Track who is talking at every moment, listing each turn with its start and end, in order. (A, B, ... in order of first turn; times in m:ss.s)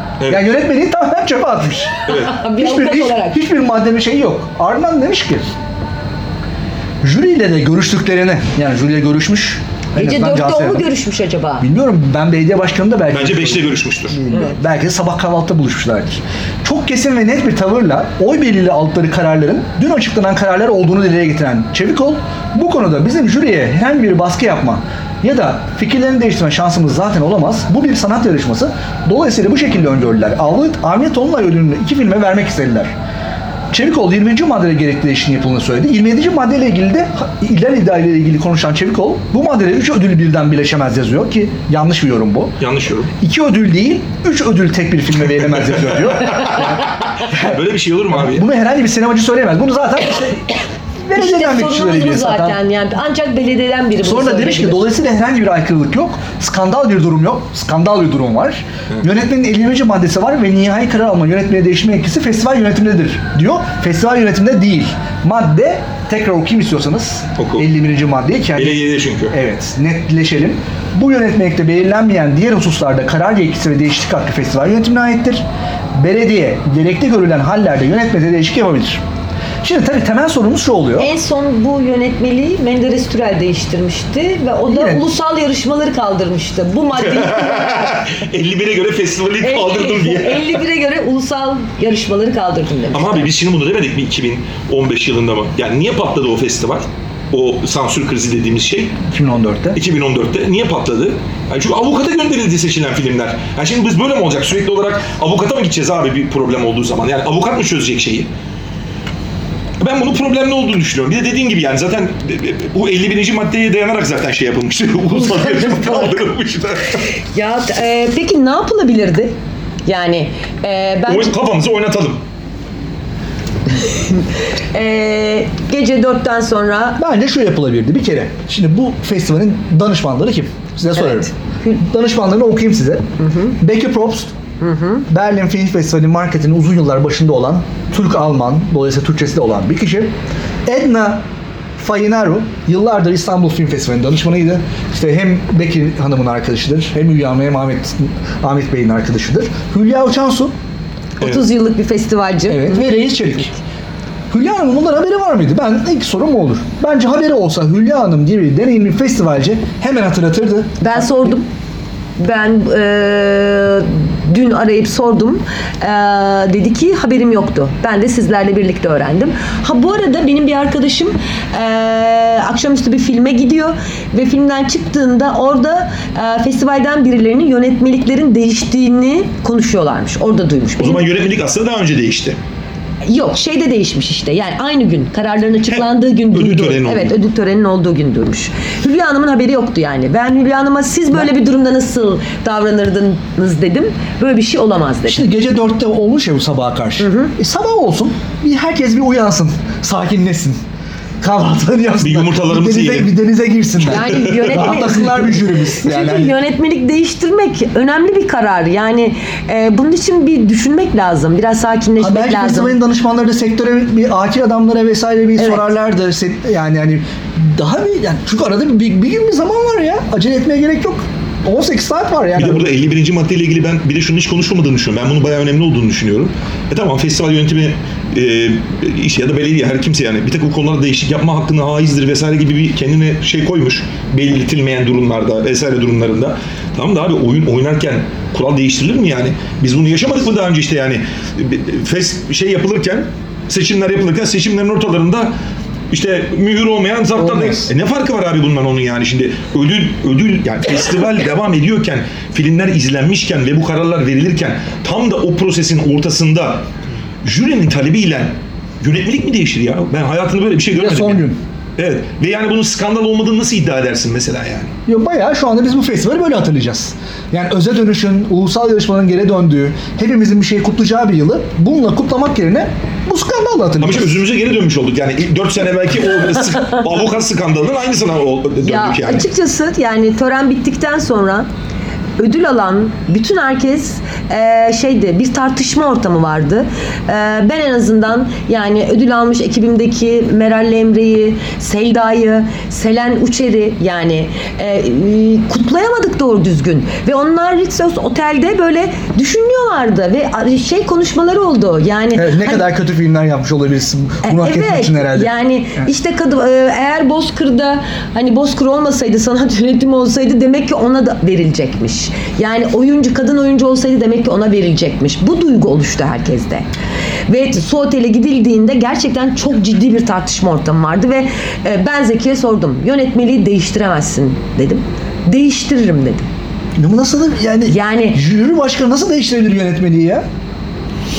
0:00.2-0:00.5 A
0:00.3-0:02.0 B
0:02.1-0:02.4 A
0:02.1-0:03.4 C
0:02.6-0:05.5 B
0:07.0-0:10.9 B
0:10.0-0:11.7 C
0:11.6-0:32.9 B
0:13.1-0:14.2 A
0:33.7-0:42.6 B
0:42.6-0:43.1 A
0:43.2-0:47.6 B
0:45.9-0:46.7 A
0:47.2-0:48.5 A
0:48.1-0:52.6 B
0:51.1-0:54.8 C
0:54.0-1:19.0 B
1:07.4-1:07.7 A
1:08.6-1:09.4 A
1:19.6-1:21.1 B
1:21.0-1:28.1 C
1:24.7-1:25.0 B
1:27.0-1:30.6 A
1:29.4-1:33.3 C
1:32.9-1:39.0 A
1:39.1-1:39.8 B
1:39.8-1:48.3 A
1:49.8-1:57.0 A
1:55.1-1:56.2 C
1:57.2-1:59.3 C
1:59.9-2:01.3 C
2:01.1-2:02.2 A
2:03.7-2:07.0 C
2:07.0-2:14.3 B
2:11.2-2:11.8 C
2:13.2-2:13.5 C
2:14.6-2:15.0 C
2:15.1-2:20.1 B
2:20.7-2:21.2 B
2:21.8-2:30.5 B
2:31.2-2:32.9 C
2:32.5-2:33.5 B
2:34.3-2:41.3 B
2:40.8-2:41.4 C
2:42.2-3:01.0 C
3:00.8-3:02.4 A
3:03.0-3:15.3 C
3:05.7-3:07.2 A
3:15.1-3:20.6 B
3:17.0-3:17.3 C
3:21.2-3:26.4 B
3:22.0-3:23.1 A
3:23.8-3:32.8 C
3:23.9-3:24.6 A
3:32.0-3:42.7 B
3:35.4-3:35.7 C
3:42.4-4:05.3 A
4:05.9-4:16.6 A
4:07.2-4:07.7 B
4:17.2-4:21.2 A
4:20.8-4:21.4 B
4:21.8-4:24.7 A
4:24.9-4:34.2 B
4:33.8-4:39.3 A
4:38.6-4:41.5 C
4:42.2-5:02.6 C
5:02.1-5:05.9 B
5:04.2-5:16.7 C
5:17.3-5:26.3 C
5:26.8-5:30.2 B
5:27.7-5:28.2 C